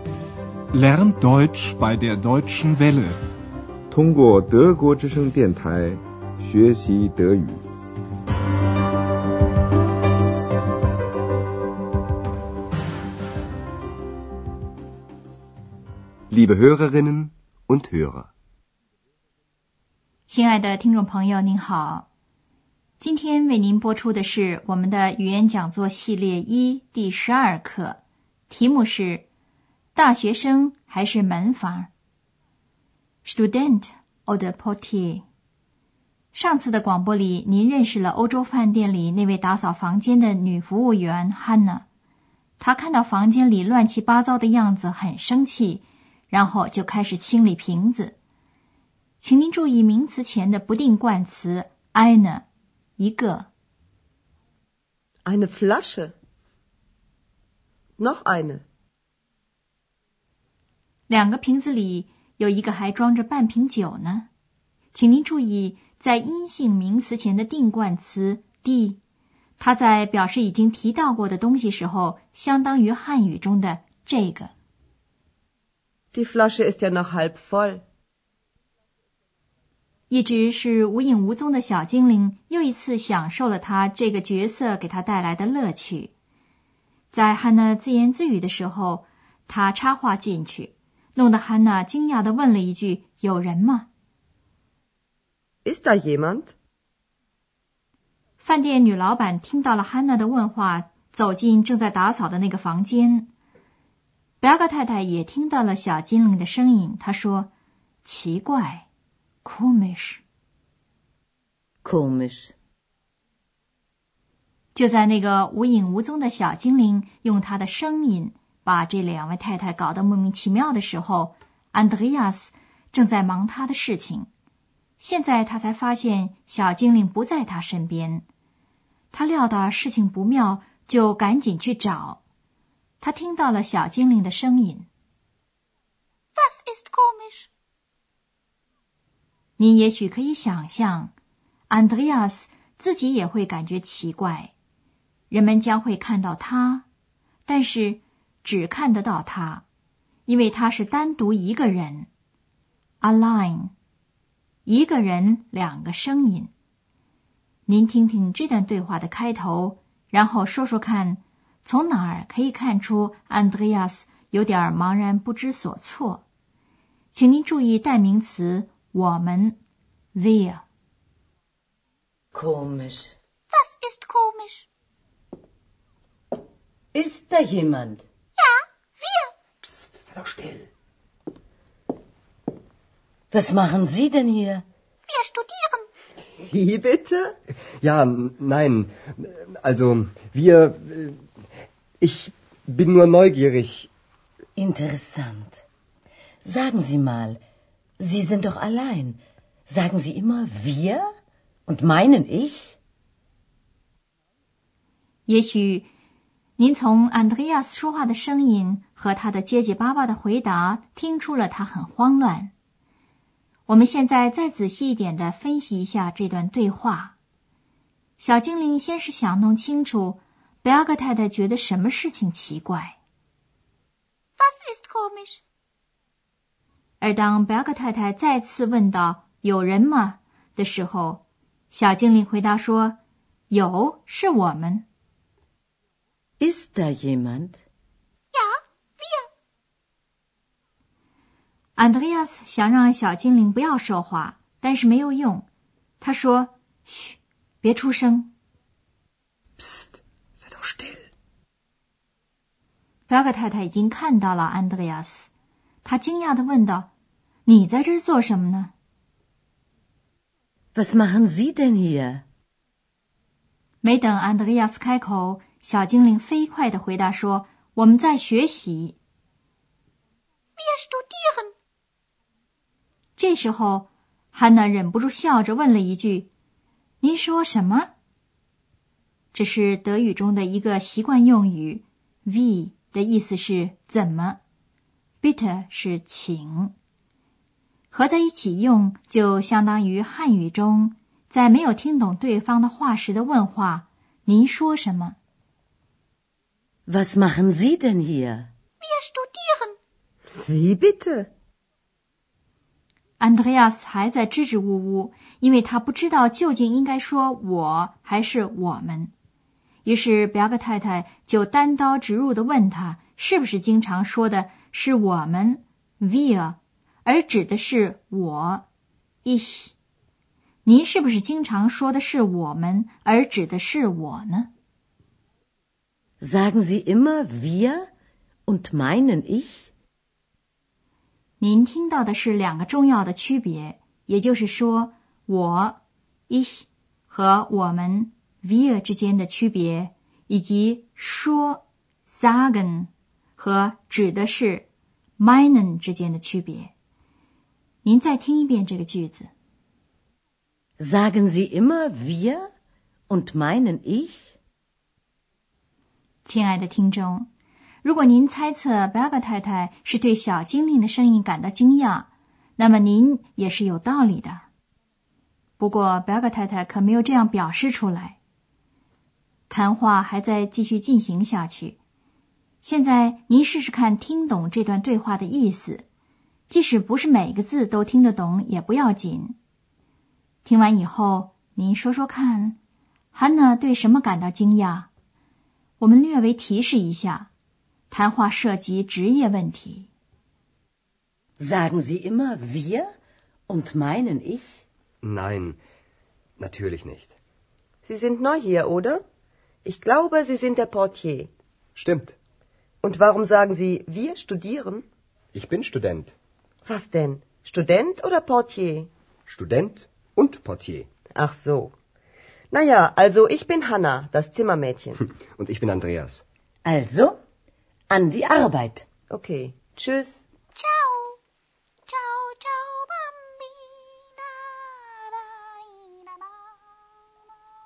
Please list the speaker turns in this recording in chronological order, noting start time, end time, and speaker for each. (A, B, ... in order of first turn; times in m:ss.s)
0:00.7-0:03.2 A
0:03.9-0:07.6 B
0:16.3-0:18.3 C
0:20.3-0:22.1 D
0:23.0-0:29.2 D
0:29.9-0:31.9 D
0:33.2-0:35.2 D
0:36.3-0:41.8 D
0:42.6-0:48.2 D
0:49.2-0:52.4 D
0:53.0-0:53.5 D
0:55.2-0:56.1 E
0:58.0-0:58.6 E
1:01.1-1:04.3 D
1:04.9-1:09.0 D
1:09.6-1:14.5 D
1:16.1-1:17.8 E
1:20.1-1:26.1 D
1:27.1-1:33.9 D
1:35.6-1:36.5 E
1:38.4-1:43.3 D
1:44.4-1:47.5 D
1:48.0-1:48.8 D
1:49.4-1:50.2 D
1:51.8-1:52.5 F
1:54.7-2:04.3 D
2:05.0-2:08.2 D
2:09.1-2:12.2 D
2:13.0-2:14.9 D
2:16.4-2:17.5 G
2:19.6-2:21.1 D
2:21.7-2:24.5 D
2:25.3-2:26.8 D
2:27.4-2:29.6 D
2:30.2-2:32.1 D
2:33.0-2:33.7 D
2:34.6-2:36.5 D
2:37.6-2:46.2 D
2:47.1-2:49.6 D
2:50.1-2:50.6 D
2:52.3-2:53.1 F
2:53.5-2:54.7 G
2:56.9-2:58.0 F
2:58.4-2:59.3 G
3:03.3-3:04.6 F
3:05.1-3:05.8 G
3:06.4-3:07.3 E
3:07.8-3:11.2 C
3:12.0-3:13.9 C
3:14.6-3:15.6 F
3:16.4-3:17.4 F
3:18.0-3:21.0 F
3:21.7-3:22.8 F
3:25.3-3:25.9 D
3:26.6-3:32.5 D
3:33.7-3:37.1 D
3:38.2-3:43.0 D
3:44.4-3:45.4 G
3:47.0-3:53.0 D
3:53.5-3:54.8 D
3:56.4-3:57.6 F
3:58.3-3:59.3 G
4:01.7-4:05.5 D
4:06.0-4:08.3 D
4:13.1-4:15.3 D
4:15.8-4:16.9 D
4:17.4-4:18.7 D
4:20.7-4:22.2 F
4:23.8-4:29.0 D
4:30.6-4:31.5 G
4:33.2-4:36.3 D
4:37.0-4:37.9 D
4:39.3-4:44.4 D
4:45.2-4:46.7 D
4:47.9-4:55.2 D
4:56.9-4:58.5 F
4:58.8-4:59.8 G
5:00.4-5:01.3 E
5:03.2-5:09.1 D
5:09.8-5:18.6 D
5:19.2-5:19.7 D
5:20.6-5:24.5 D
5:26.2-5:27.8 F
5:28.5-5:29.7 F
5:31.4-5:44.7 D
5:45.2-5:46.7 D
5:47.8-5:49.3 D
5:50.8-5:52.4 F
5:53.1-5:54.3 F
5:56.2-5:57.3 D
5:57.8-6:04.4 D
6:05.6-6:08.2 D
6:09.5-6:11.8 D
6:12.6-6:15.8 D
6:16.5-6:19.4 D
6:20.4-6:22.6 D
6:23.1-6:24.9 D
6:25.8-6:27.3 D
6:27.9-6:29.9 D
6:31.4-6:32.9 F
6:33.5-6:34.6 F
6:35.0-6:35.6 C
6:36.4-6:37.1 C
6:37.9-6:39.0 E
6:39.6-6:41.3 E
6:41.8-6:42.2 C
6:42.8-6:44.8 E
6:45.3-6:46.1 C
6:46.6-6:48.9 E
6:49.3-6:50.9 C
6:51.1-6:51.7 E
6:52.5-6:55.0 E
6:55.2-6:56.2 C
6:56.6-6:57.2 F
6:57.9-6:58.8 F
6:59.1-7:00.1 E
7:00.5-7:01.2 G
7:01.9-7:06.1 G